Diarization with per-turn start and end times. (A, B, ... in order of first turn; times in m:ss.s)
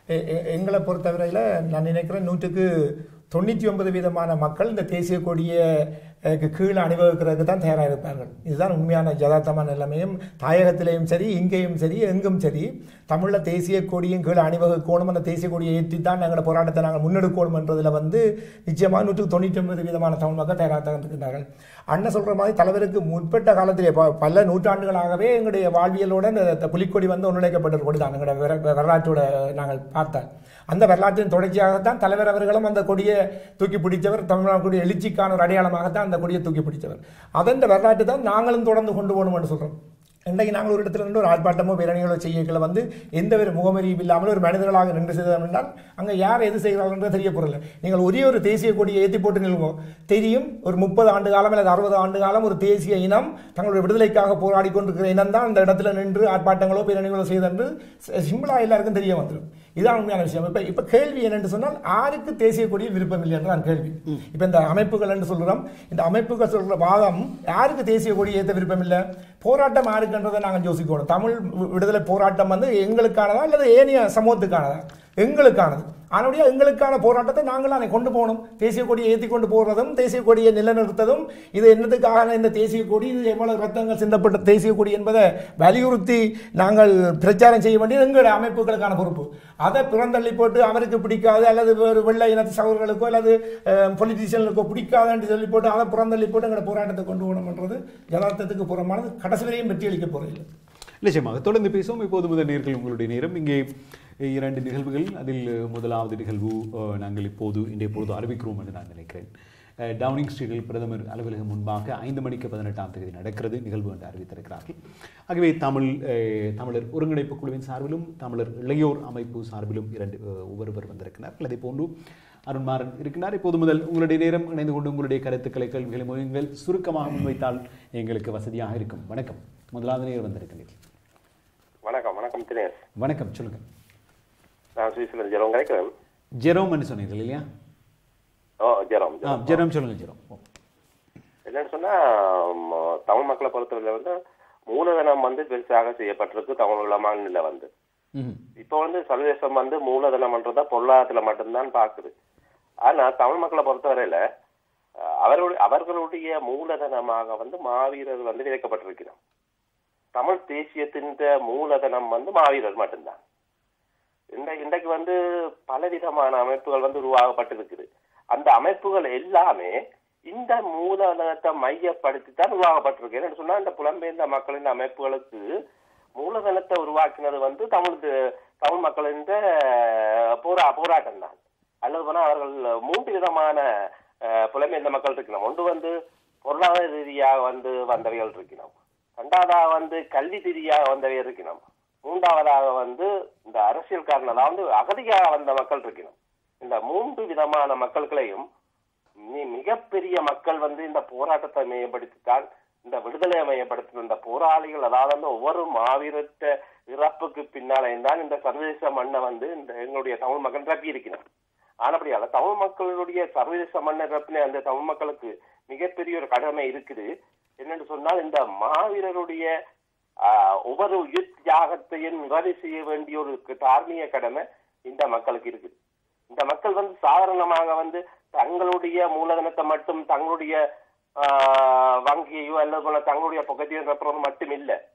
0:00.1-1:40.4 A
1:41.0-1:43.6 B
1:44.2-1:49.3 B
1:49.8-1:54.8 B
1:55.3-2:01.9 B
2:02.5-2:10.7 B
2:11.8-2:12.8 C
2:13.0-2:13.6 B
2:14.8-2:15.9 C
2:16.4-2:17.4 B
2:18.6-2:19.6 C
2:19.2-2:20.4 B
2:21.4-2:24.2 C
2:24.7-2:27.7 C
2:28.6-2:32.1 C
2:32.8-2:34.2 C
2:35.2-2:39.2 C
2:40.1-2:43.2 C
2:44.3-2:45.1 C
2:45.7-2:49.8 C
2:50.3-2:55.5 C
2:56.2-3:03.6 C
3:04.3-3:05.9 C
3:06.4-3:18.4 C
3:19.2-3:31.2 C
3:31.8-3:37.1 C
3:37.6-3:39.5 C
3:40.2-3:45.7 C
3:46.3-3:50.6 C
3:51.2-3:54.8 C